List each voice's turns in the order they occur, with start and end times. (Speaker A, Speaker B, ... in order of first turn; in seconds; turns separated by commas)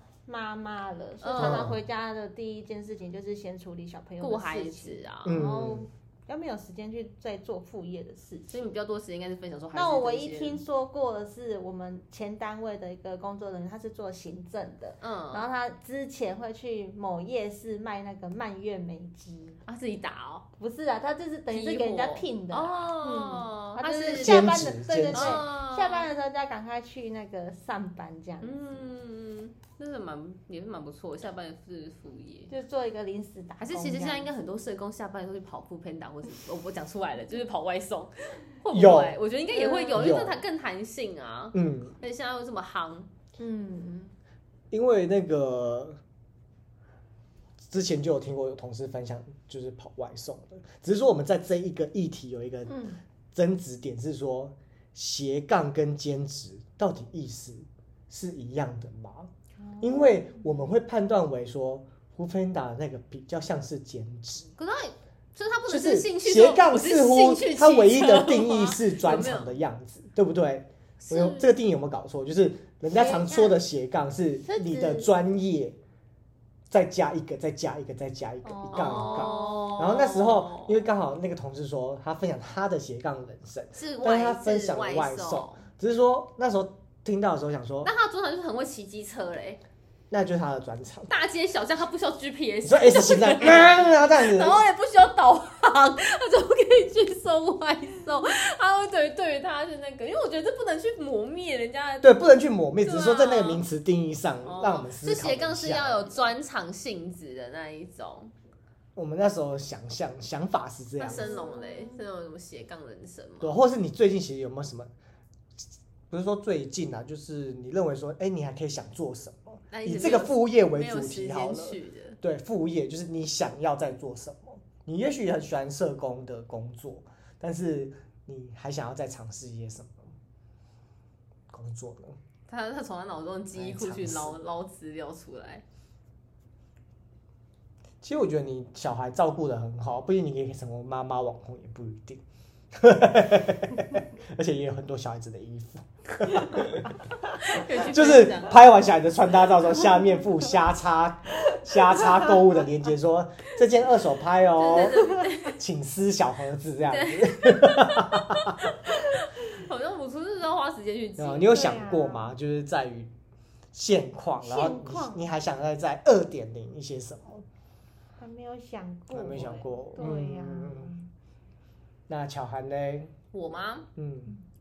Speaker A: 0.2-8.7, Speaker B: 1.2-1.7, Speaker C: 1.4-1.8, Speaker B: 4.2-5.4, Speaker C: 5.2-5.9, Speaker B: 8.5-10.6, Speaker A: 9.7-19.6, Speaker B: 15.0-15.5, Speaker B: 19.7-20.4, Speaker A: 20.6-28.8, Speaker B: 21.5-24.6, Speaker C: 24.1-25.4, Speaker B: 25.1-26.1, Speaker B: 28.4-32.5, Speaker A: 32.5-34.3, Speaker B: 33.6-43.1, Speaker C: 38.7-39.2, Speaker A: 39.5-40.1, Speaker C: 39.9-40.4, Speaker C: 41.5-41.9, Speaker A: 43.4-44.1, Speaker C: 44.7-46.0, Speaker C: 47.7-64.5, Speaker A: 52.7-53.0, Speaker A: 59.6-60.4, Speaker B: 64.6-69.5, Speaker C: 65.7-75.8, Speaker B: 71.0-71.5, Speaker A: 72.9-73.5, Speaker A: 74.4-75.1, Speaker C: 76.7-87.9, Speaker A: 78.4-79.7, Speaker B: 78.7-80.8, Speaker B: 83.7-85.6, Speaker B: 87.8-89.6, Speaker C: 90.1-91.1, Speaker B: 91.1-102.2, Speaker C: 92.6-94.6, Speaker C: 102.0-106.2, Speaker B: 102.8-103.6, Speaker B: 104.4-108.3, Speaker C: 109.0-111.4, Speaker B: 111.0-113.5, Speaker A: 111.1-112.0, Speaker C: 113.4-114.9, Speaker C: 116.1-130.1, Speaker B: 119.7-122.2, Speaker C: 131.5-132.2, Speaker B: 132.5-135.6, Speaker C: 133.5-134.3, Speaker C: 138.0-142.2, Speaker C: 142.7-146.9, Speaker B: 147.4-148.6, Speaker C: 147.8-158.6, Speaker B: 154.5-155.6, Speaker B: 156.9-161.8, Speaker C: 161.2-163.1, Speaker A: 161.5-162.3, Speaker C: 163.7-167.4, Speaker A: 164.4-165.2, Speaker A: 168.2-171.1, Speaker C: 169.1-170.9, Speaker C: 172.1-173.1, Speaker B: 173.3-173.9, Speaker C: 173.9-174.3